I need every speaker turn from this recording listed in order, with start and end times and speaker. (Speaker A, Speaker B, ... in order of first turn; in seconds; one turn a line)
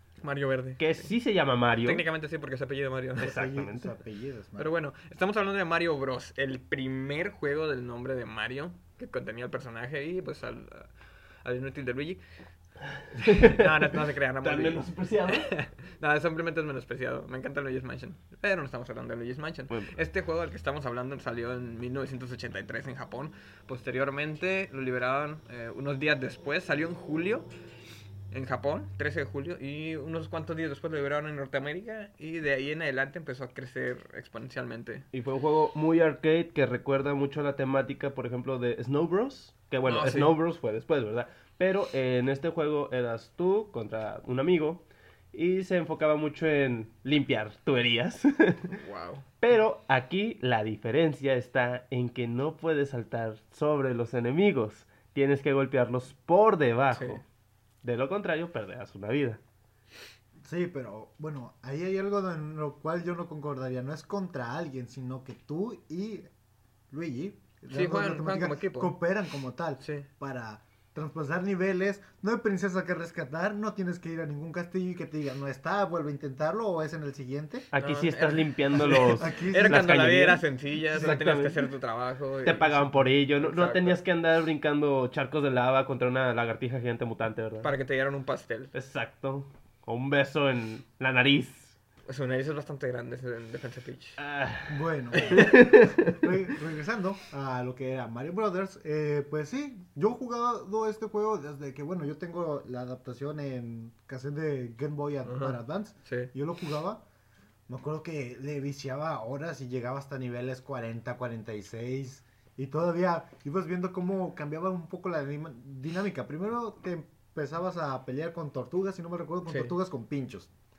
Speaker A: 0.2-1.1
Speaker B: 0.8-2.0
Speaker A: 1.8-3.3
Speaker B: 3.2-3.9
Speaker C: 3.2-4.7
Speaker A: 4.6-12.2
Speaker B: 13.3-13.7
Speaker A: 13.3-27.5
Speaker B: 14.4-15.5
Speaker B: 19.7-19.9
Speaker A: 28.3-35.0
Speaker B: 35.1-48.8
Speaker A: 39.8-40.3
Speaker A: 48.7-49.3
Speaker B: 49.4-57.2
Speaker A: 56.9-57.2
Speaker B: 57.8-59.4
Speaker C: 60.4-66.3
Speaker C: 66.9-77.7
Speaker A: 67.7-68.9
Speaker A: 69.8-70.0
Speaker B: 77.7-81.6
Speaker A: 77.8-82.7
Speaker C: 78.8-79.8
Speaker B: 82.4-87.7
Speaker C: 82.7-83.0
Speaker A: 83.4-84.0
Speaker A: 87.6-88.7
Speaker B: 88.7-91.7
Speaker A: 92.1-94.2
Speaker B: 94.2-96.3
Speaker C: 94.7-107.0
Speaker A: 95.1-95.4
Speaker A: 105.2-106.3
Speaker C: 107.7-120.5
Speaker A: 119.5-119.7